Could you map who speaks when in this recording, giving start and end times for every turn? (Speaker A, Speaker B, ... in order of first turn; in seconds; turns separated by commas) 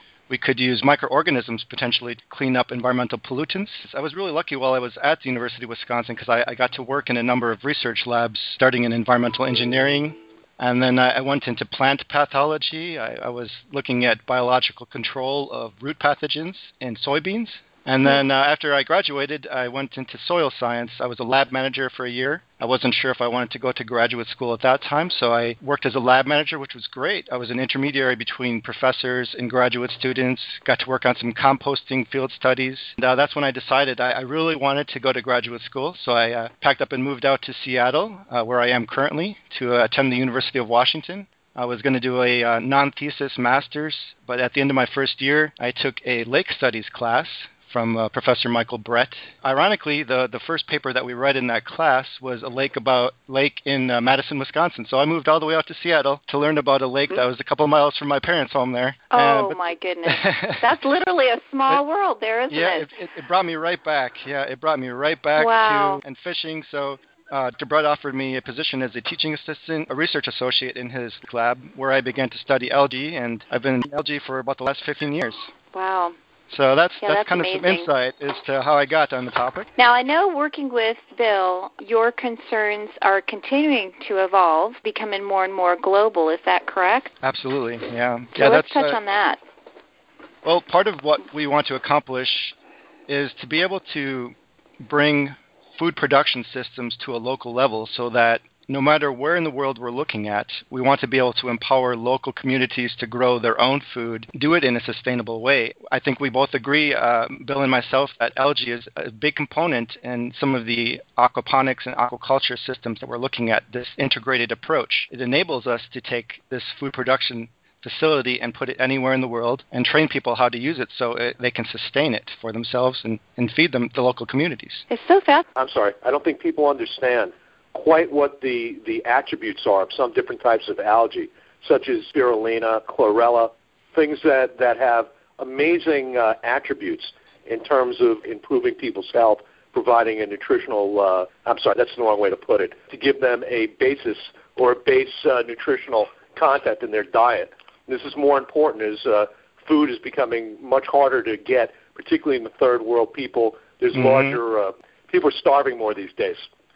Speaker A: 0.3-60.7, Speaker B: 59.1-62.9, Speaker A: 62.5-75.5, Speaker B: 65.3-66.0, Speaker B: 75.7-76.2, Speaker A: 76.5-79.7, Speaker B: 77.0-77.9, Speaker B: 79.8-87.1, Speaker A: 87.2-89.0, Speaker B: 88.3-89.4, Speaker A: 90.4-92.5, Speaker A: 93.1-124.8, Speaker B: 124.9-125.5, Speaker C: 125.5-156.5, Speaker A: 153.9-154.4